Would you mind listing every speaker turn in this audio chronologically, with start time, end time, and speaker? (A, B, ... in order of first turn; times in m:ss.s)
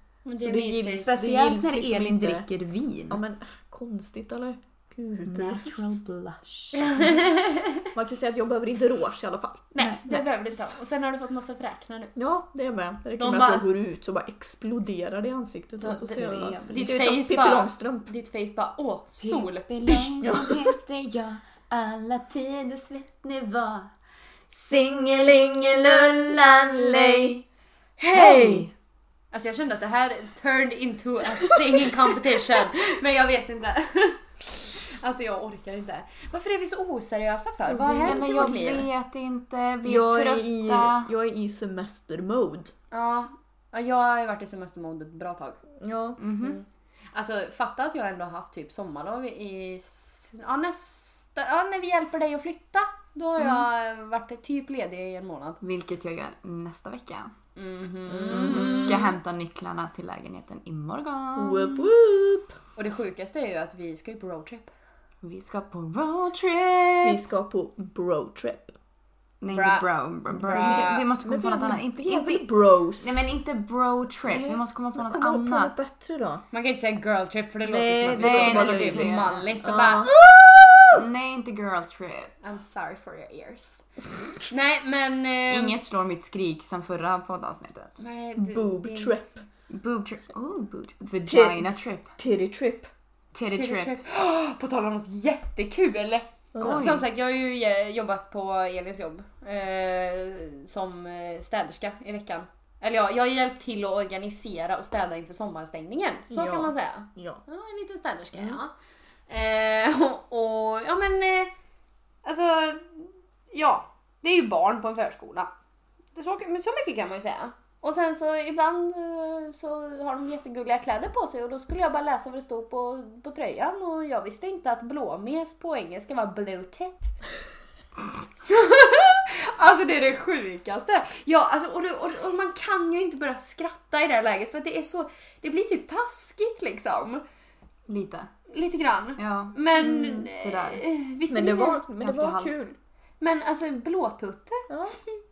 0:00.2-0:01.1 A
0:00.4-0:03.2 B
0:01.0-0:02.5 C
0:03.1-0:05.8 C
0:05.2-0:07.0 B
0:06.8-0:07.9 A
0:07.9-0:09.7 C
0:09.7-0:12.1 A
0:09.8-0:10.2 B
0:12.2-0:18.1 C
0:13.2-0:13.7 A
0:15.8-0:17.0 B
0:16.7-0:20.1 A
0:19.2-0:23.9 B
0:20.2-0:20.8 C
0:24.5-0:27.4 B
0:24.9-0:27.4 C
0:28.0-0:28.7 C
0:28.1-0:28.7 B
0:29.3-0:38.9 A
0:37.6-0:38.6 C
0:38.0-0:41.1 B
0:39.8-0:42.7 C
0:42.9-0:45.6 A
0:45.8-0:46.6 C
0:46.2-0:46.6 B
0:47.1-0:55.6 A
0:55.6-0:57.3 B
0:57.6-0:59.1 A
0:58.1-0:59.1 C
0:58.3-1:01.9 B
1:01.4-1:02.6 C
1:02.8-1:04.7 A
1:05.2-1:07.2 B
1:07.0-1:08.8 C
1:09.4-1:15.8 B
1:09.5-1:11.1 A
1:10.4-1:13.2 C
1:14.3-1:16.4 C
1:16.5-1:20.1 A
1:17.6-1:21.1 C
1:18.1-1:19.5 B
1:20.9-1:22.3 B
1:22.4-1:23.8 A
1:24.5-1:25.8 A
1:25.5-1:27.9 B
1:28.0-1:29.4 A
1:28.4-1:29.4 C
1:29.7-1:32.1 B
1:31.3-1:32.9 C
1:33.3-1:34.0 B
1:33.5-1:48.7 A
1:36.5-1:37.0 C
1:36.6-1:37.1 B
1:46.3-1:47.4 C
1:48.4-1:48.6 C
1:49.3-1:51.5 A
1:52.2-1:55.5 A
1:56.2-2:07.2 A
2:08.5-2:17.2 A
2:17.9-2:18.3 B
2:18.5-2:21.8 A
2:19.2-2:20.8 B
2:19.8-2:20.2 C
2:21.3-2:22.8 C
2:22.0-2:22.6 B
2:23.2-2:24.7 A
2:24.7-2:25.0 C